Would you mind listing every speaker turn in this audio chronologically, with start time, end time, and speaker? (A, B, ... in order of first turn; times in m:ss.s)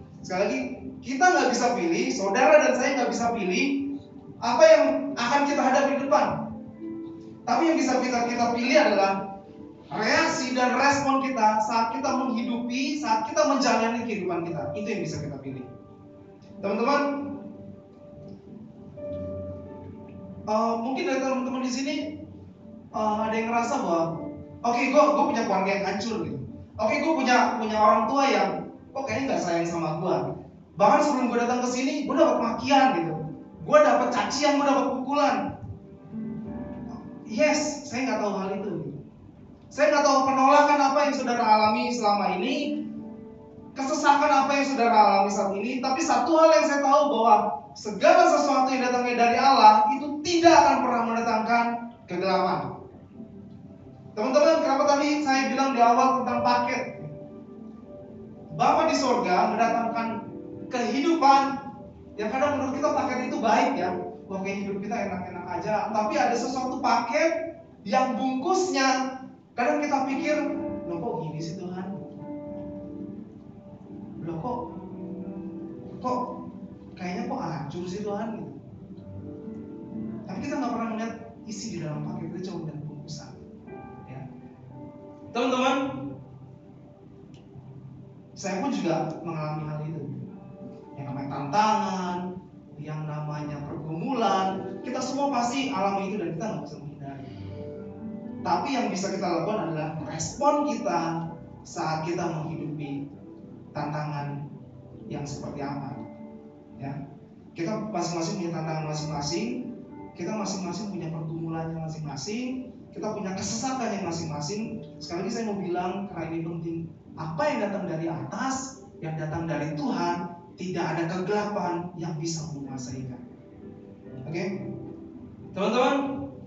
0:00.2-0:03.9 A
0:04.4-0:06.4 A
0:07.5-0:09.2 A
0:09.9-0:15.7 A
0:16.6-0:17.4 A
0:20.5-0:22.1 A
0:23.0-0:24.1 A
0:24.6-0:30.2 A
0:30.8-0:35.4 A
0:36.9-0:39.0 A
0:39.7-0:42.7 A
0:43.8-0:52.7 A
0:54.2-0:57.1 A
0:58.5-1:00.1 A
1:00.7-1:01.5 A
1:02.2-1:07.3 A
1:07.8-1:09.0 A
1:09.6-1:11.9 A
1:14.2-1:14.7 A
1:16.0-1:16.4 A
1:17.0-1:18.6 A
1:20.3-1:23.4 A
1:25.3-1:26.1 A
1:28.4-1:30.2 A
1:31.0-1:37.3 A
1:38.4-1:43.0 A
1:43.8-1:44.4 A
1:45.1-1:46.0 A
1:47.6-2:03.2 A
2:04.2-2:04.6 A
2:05.5-2:06.3 A